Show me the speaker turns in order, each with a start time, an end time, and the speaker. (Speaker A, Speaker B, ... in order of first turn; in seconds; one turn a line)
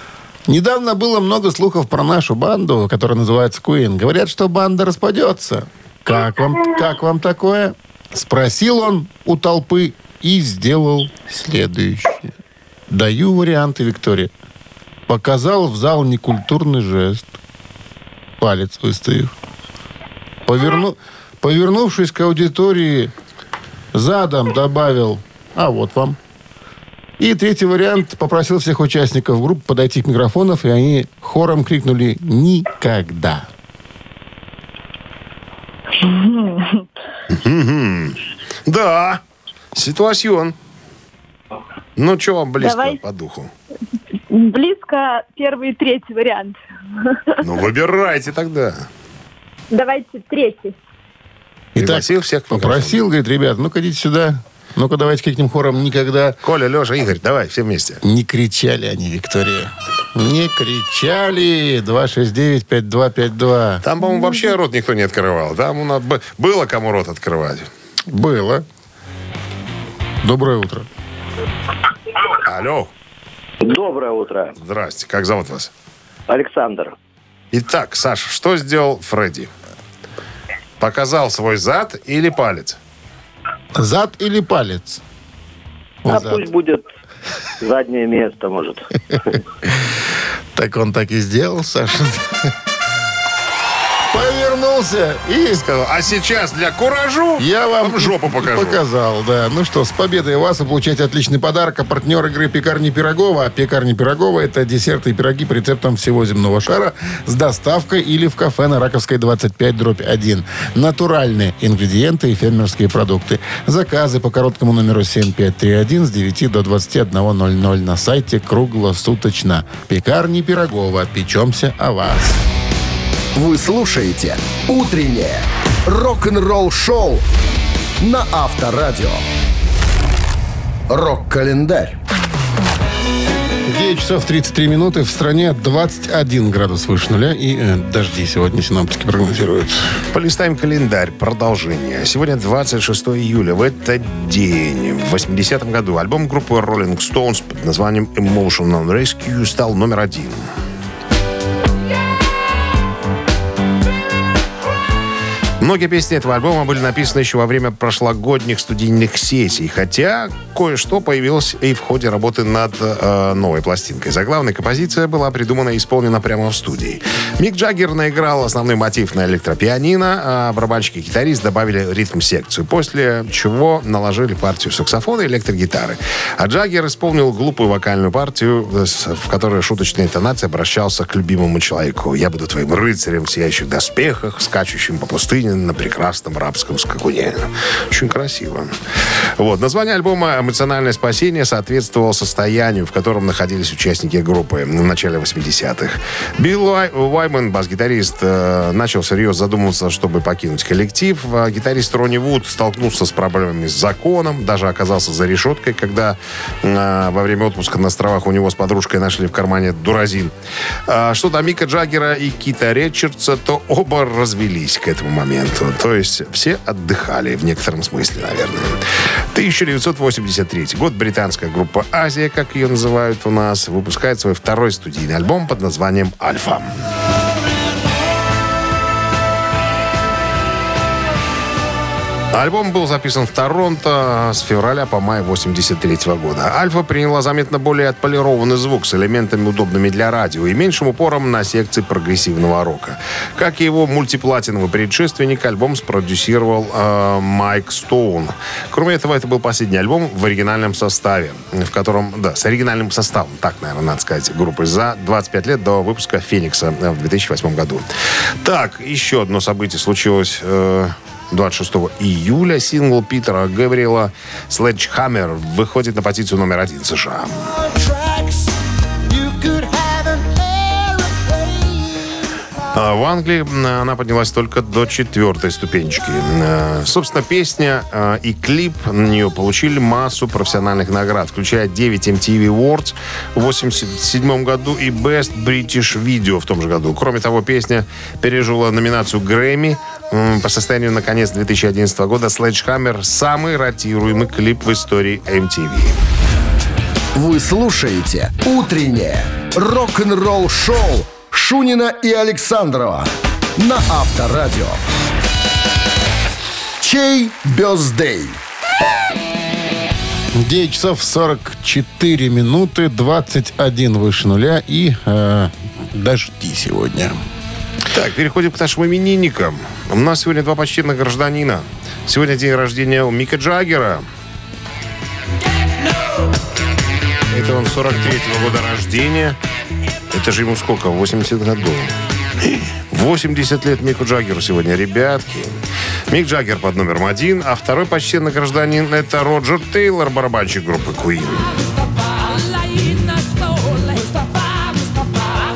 Speaker A: 0.5-12.3
Speaker A: 12.9-14.3
Speaker A: 15.1-17.4
Speaker A: 18.4-19.3
Speaker A: 20.5-23.1
Speaker A: 23.9-26.2
Speaker A: 27.2-33.5
Speaker B: 36.0-36.8
Speaker C: 37.3-39.2
Speaker C: 39.7-40.5
Speaker C: 42.0-43.5
Speaker B: 42.6-43.0
Speaker B: 44.3-46.6
Speaker C: 47.4-48.9
Speaker B: 49.7-50.8
Speaker A: 51.8-56.4
Speaker C: 51.8-53.0
Speaker C: 56.4-58.0
Speaker A: 58.0-63.8
Speaker C: 63.8-67.7
Speaker A: 68.1-68.7
Speaker A: 70.2-70.9
Speaker C: 72.4-72.9
Speaker D: 73.6-74.5
Speaker C: 74.6-75.7
Speaker D: 76.3-77.0
Speaker C: 77.5-79.5
Speaker C: 80.8-82.8
Speaker A: 83.8-85.0
Speaker A: 86.0-86.4
Speaker D: 86.1-86.8
Speaker D: 87.6-89.4
Speaker A: 90.5-92.5
Speaker A: 94.1-95.7
Speaker C: 95.5-98.8
Speaker A: 97.4-122.4
Speaker E: 123.3-127.2
Speaker E: 128.0-129.2
Speaker E: 130.9-132.0
Speaker A: 133.7-140.0
Speaker C: 140.1-150.5
Speaker C: 155.6-188.8
Speaker C: 189.4-210.3
Speaker C: 210.9-218.8
Speaker C: 219.3-226.7
Speaker C: 232.3-257.9
Speaker C: 258.4-267.5
Speaker E: 269.2-270.4
Speaker C: 272.7-296.0
Speaker E: 297.1-304.8
Speaker E: 306.8-308.4
Speaker A: 310.3-317.2
Speaker C: 317.9-324.1
Speaker C: 327.3-329.4
Speaker C: 330.1-331.9
Speaker C: 332.5-335.5
Speaker C: 336.1-341.5